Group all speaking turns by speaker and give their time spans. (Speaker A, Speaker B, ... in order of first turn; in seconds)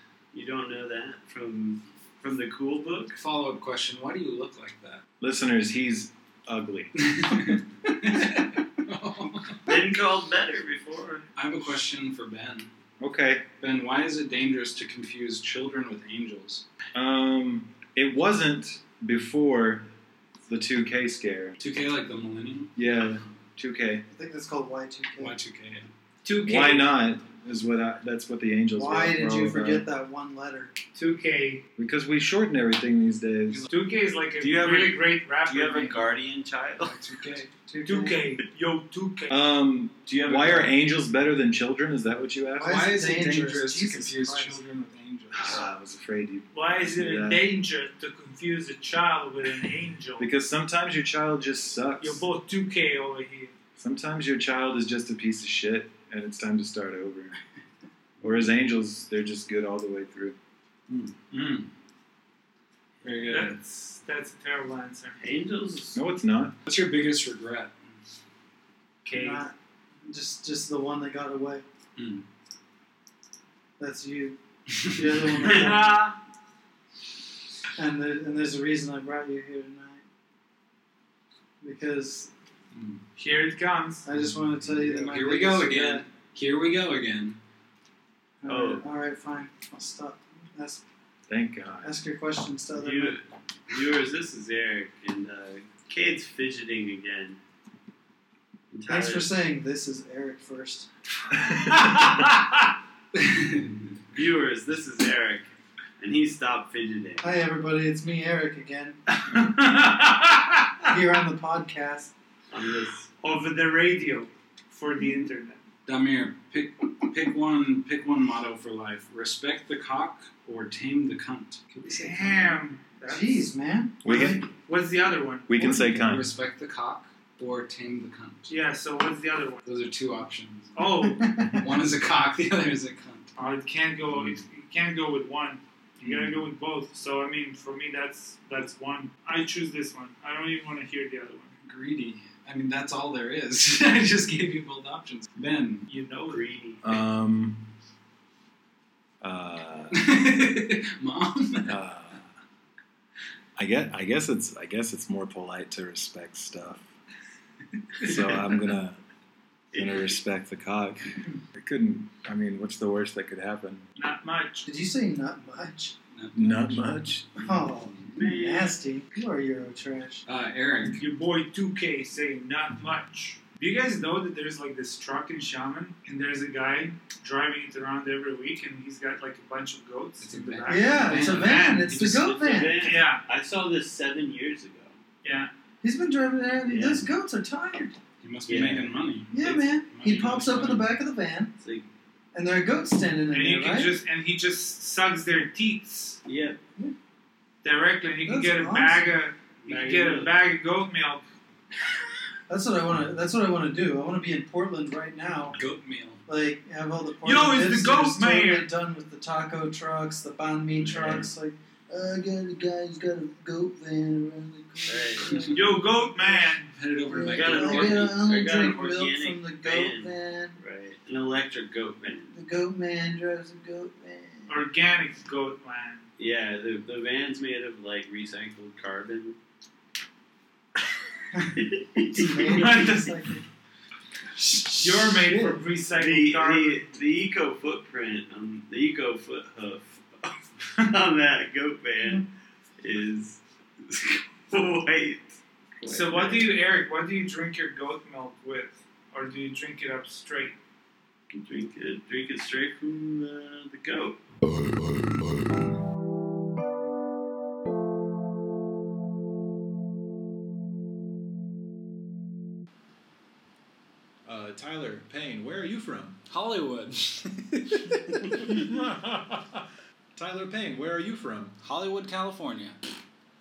Speaker A: 0.3-3.2, 9.7-11.2, 34.4-37.0, 65.2-66.0, 75.3-75.8, 88.4-88.8, 92.7-97.4, 98.7-99.3, 104.1-107.3, 112.5-113.1, 146.2-147.0, 159.7-160.2, 168.1-168.8, 181.9-184.9, 186.7-187.1, 188.4-188.9, 191.6-191.9, 196.2-196.6, 199.6-200.3, 210.8-211.3, 214.9-215.5, 217.3-222.3, 226.2-229.4, 231.5-232.8, 235.9-242.2, 242.8-246.6, 251.3-254.2
Speaker B: 3.1-5.0, 7.0-9.8, 11.3-12.7, 13.6-16.6, 21.6-22.7, 25.2-25.9, 33.5-33.7, 36.8-37.5, 40.3-40.7, 42.6-45.7, 60.9-61.7, 63.0-63.6, 66.7-67.7, 72.0-72.2, 75.0-75.5, 82.7-83.0, 84.7-87.4, 103.1-103.8, 115.8-122.6, 126.0-128.5, 129.6-130.8, 131.6-133.3, 136.0-136.4, 141.6-145.8, 149.9-151.8, 166.1-167.8, 170.2-171.0, 180.2-182.3, 188.2-190.9, 205.5-206.2, 215.3-215.7, 216.7-218.2, 266.3-268.4, 271.6-272.8
Speaker C: 5.2-6.9, 13.0-13.4, 16.9-19.9, 20.4-21.5, 22.8-24.0, 26.4-29.9, 31.8-33.6, 39.3-42.8, 45.3-47.5, 50.2-52.2, 53.8-57.3, 58.2-60.4, 65.9-66.5, 91.3-91.9, 124.0-124.5, 125.5-126.2, 146.8-147.6, 149.2-150.1, 151.7-152.3, 153.6-156.9, 158.0-159.0, 159.7-161.0, 161.5-163.8, 166.3-167.3, 264.2-266.2, 268.3-269.6, 270.1-271.6
Speaker D: 24.1-25.4, 28.7-30.7, 37.6-38.2, 42.6-44.6, 69.1-71.6, 73.8-76.1, 77.7-80.0, 81.6-82.3, 84.0-86.0, 88.4-90.8, 91.8-93.2, 98.9-100.9, 107.2-109.0, 110.9-112.1, 123.1-124.5, 131.2-131.6, 164.6-165.9, 167.4-170.2, 180.7-182.9, 185.8-187.9, 189.3-191.5, 192.3-194.0, 198.2-199.2, 202.5-205.6, 206.2-220.6, 222.3-224.6, 232.1-233.4, 234.3-235.6
Speaker E: 26.2-26.9, 30.9-31.6, 33.7-36.1, 37.8-39.4, 46.5-50.3, 52.0-53.5, 63.3-65.2, 69.0-69.5, 75.6-76.2, 83.1-84.0, 101.6-102.6, 109.1-110.9, 113.2-115.6, 121.8-123.5, 124.5-125.8, 128.5-129.6, 130.7-131.6, 133.3-141.5, 145.9-146.5, 163.9-164.7, 170.9-181.7, 182.8-183.2, 185.2-185.5, 193.3-196.2, 197.6-201.2, 207.2-208.7, 215.5-216.7, 224.5-226.0, 232.4-233.2, 234.7-236.8, 245.9-250.6